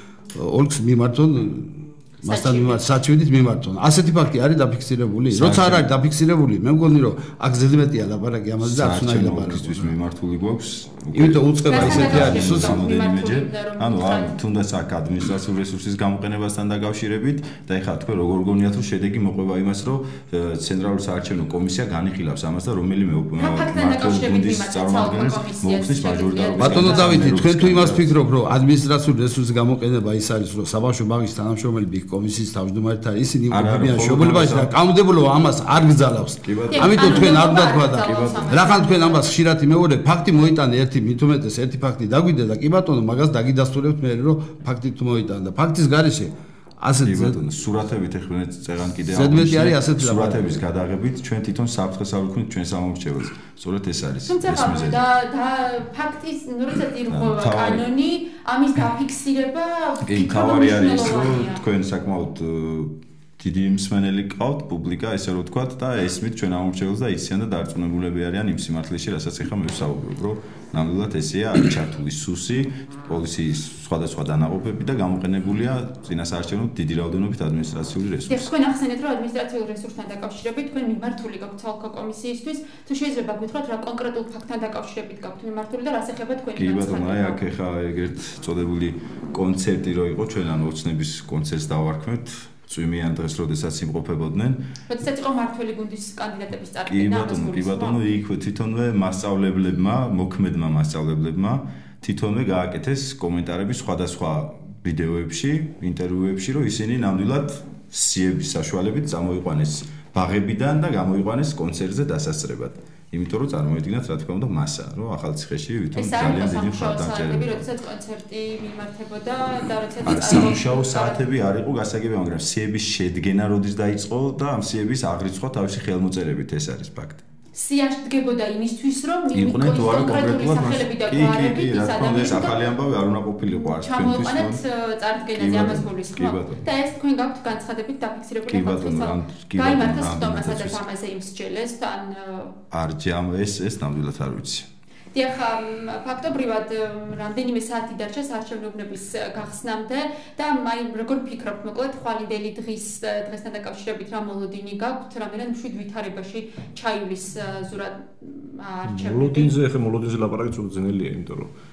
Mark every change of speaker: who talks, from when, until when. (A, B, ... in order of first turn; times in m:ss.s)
0:00.3-0:10.0 A
0:02.2-0:02.9 B
0:05.3-0:05.9 C
0:08.6-0:28.1 C
0:11.1-0:12.8 A
0:11.7-0:14.4 B
0:23.4-0:27.3 B
0:26.6-0:47.4 A
0:33.5-0:34.7 C
0:36.4-0:37.5 C
0:36.7-0:39.3 B
0:38.0-0:38.8 C
0:47.0-0:55.0 C
0:49.1-0:50.6 A
0:54.3-1:01.6 B
0:57.1-0:57.8 C
1:00.1-1:18.5 C
1:18.3-1:27.4 B
1:26.6-1:34.6 C
1:34.9-1:38.0 B
1:36.9-1:57.6 C
1:56.0-2:01.2 B
2:00.1-2:07.2 C
2:07.6-2:12.6 B
2:09.3-2:14.6 C
2:13.6-2:22.6 B
2:15.4-2:16.6 C
2:18.5-2:20.8 C
2:22.7-2:24.7 C
2:25.1-2:39.6 B
2:38.9-2:41.5 D